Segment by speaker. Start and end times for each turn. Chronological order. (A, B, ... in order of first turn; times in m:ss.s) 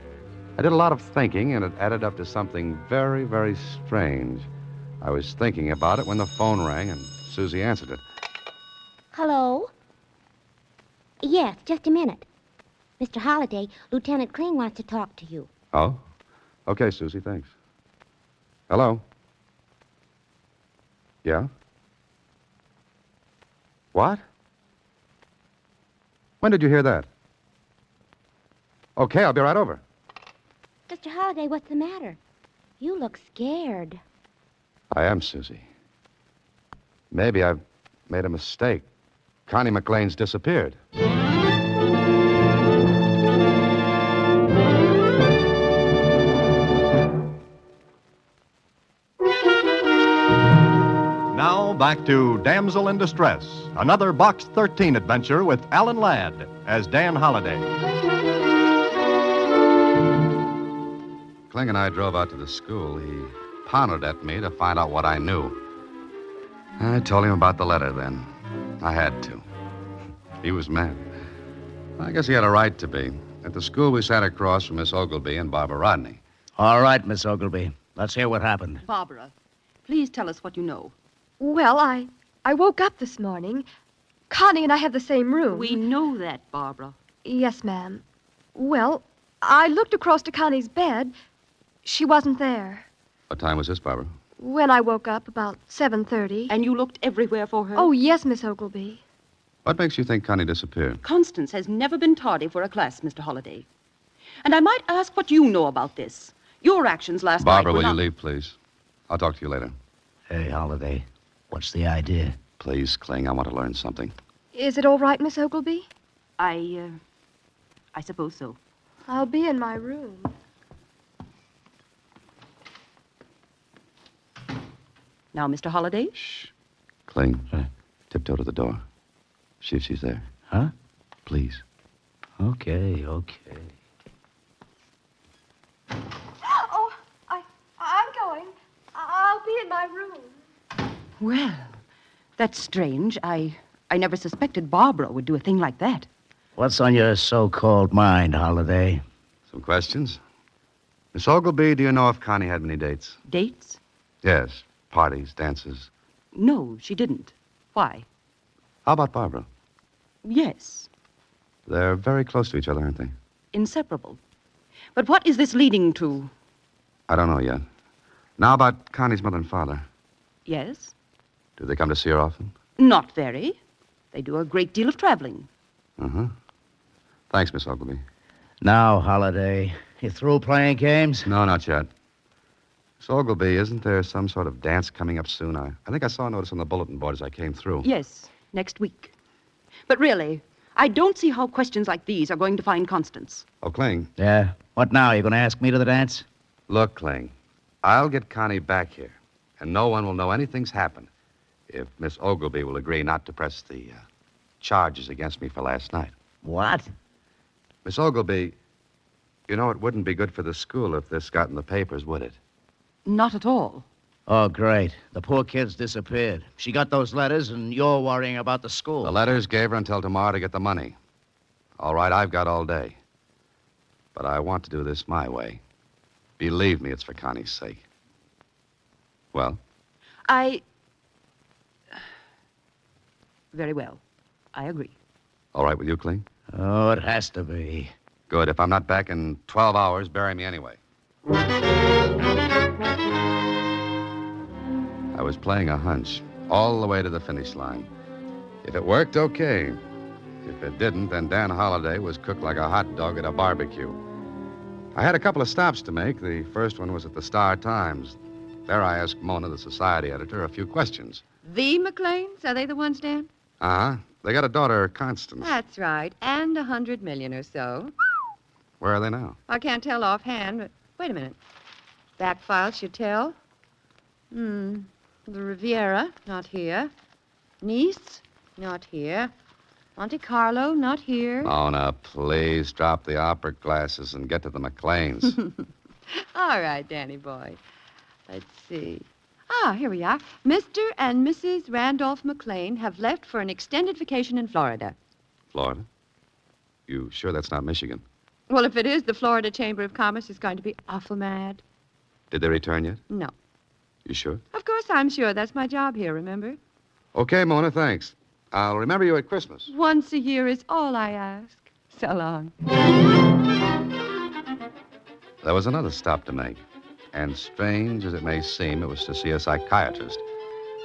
0:00.6-0:04.5 A
0:05.0-0:08.0 A
0:09.1-0:09.7 B
0:11.2-0:12.2 B
0:13.0-0:15.5 B
0:15.7-0:16.0 A
0:16.6-0:17.5 A
0:18.7-0:19.0 A
0:21.2-0:21.5 A
0:23.9-0:24.2 A
0:26.4-0:27.1 A
0:29.0-0:29.8 A
0:30.9-0:32.2 B
0:32.8-0:34.0 B
0:34.9-0:35.6 A
0:37.1-0:38.8 A
0:39.5-0:40.8 A
0:51.3-0:57.7 C
1:01.5-1:05.6 A
1:06.8-1:08.3 A
1:08.8-1:09.4 A
1:10.4-1:11.0 A
1:12.0-1:16.2 A
1:16.6-1:18.8 D
1:18.8-1:19.3 E
1:19.8-1:20.9 E
1:21.4-1:23.6 F
1:24.3-1:25.8 F
1:25.5-1:27.0 E
1:27.2-1:28.0 F
1:28.5-1:31.1 F
1:31.8-1:32.9 F
1:33.3-1:34.1 A
1:34.4-1:36.5 F
1:36.5-1:37.9 E
1:37.7-1:39.0 F
1:39.6-1:41.0 A
1:41.0-1:43.6 E
1:44.4-1:48.0 E
1:47.4-1:48.6 A
1:49.1-1:49.7 A
1:50.3-1:52.4 D
1:52.6-1:54.1 A
1:54.5-1:55.9 F
1:56.4-1:57.0 E
1:57.9-1:58.6 E
1:59.1-2:00.3 F
2:05.3-2:06.2 E
2:06.2-2:06.5 A
2:07.1-2:07.5 A
2:08.1-2:08.8 A
2:09.6-2:10.3 A
2:11.2-2:11.6 A
2:12.4-2:13.7 D
2:16.4-2:20.3 F
2:21.2-2:21.8 E
2:22.4-2:26.1 E
2:26.6-2:29.0 D
2:29.5-2:30.2 A
2:31.1-2:33.2 A
2:33.3-2:33.8 E
2:34.2-2:35.9 A
2:36.3-2:38.0 E
2:38.8-2:39.5 A
2:40.2-2:40.9 E
2:41.7-2:43.1 A
2:43.5-2:44.2 E
2:44.9-2:46.3 E
2:47.1-2:47.6 A
2:48.4-2:49.8 A
2:50.4-2:50.9 E
2:51.6-2:52.5 A
2:52.8-2:53.6 E
2:54.1-2:55.5 E
2:56.0-2:56.3 A
2:57.3-2:58.0 A
2:58.6-3:01.3 D
3:01.2-3:01.9 A
3:03.0-3:07.9 A
3:07.8-3:09.1 E
3:09.9-3:13.4 E
3:13.6-3:14.1 A
3:14.2-3:16.2 D
3:16.7-3:21.1 A
3:21.7-3:24.0 A
3:24.6-3:26.1 A
3:26.4-3:26.9 D
3:27.8-3:28.6 A
3:29.5-3:32.4 A
3:33.0-3:33.8 E
3:34.3-3:39.2 D
3:39.0-3:41.0 A
3:41.8-3:43.0 A
3:44.1-3:45.6 A
3:46.4-3:47.8 A
3:49.3-3:49.6 A
3:50.3-3:50.6 E
3:53.5-3:54.0 E
3:54.5-3:54.9 E
3:55.5-3:56.2 A
3:56.5-3:57.9 D
3:58.3-4:00.8 A
4:05.1-4:07.9 A
4:08.6-4:09.8 A
4:10.4-4:14.0 A
4:14.9-4:21.2 A
4:21.4-4:23.3 G
4:23.6-4:25.5 A
4:25.4-4:27.9 G
4:28.8-4:29.4 A
4:29.5-4:31.4 G
4:32.2-4:33.4 G
4:34.3-4:36.9 G
4:37.6-4:39.3 G
4:40.0-4:41.5 G
4:41.4-4:45.4 A
4:46.1-4:47.6 G
4:48.3-4:55.0 G
4:55.5-4:55.8 A
4:56.9-4:58.0 A
4:58.5-5:01.6 G
5:02.3-5:03.0 A
5:04.0-5:04.4 A
5:04.5-5:06.6 G
5:07.1-5:09.7 A
5:09.7-5:12.5 G
5:15.4-5:16.6 A
5:17.1-5:20.2 A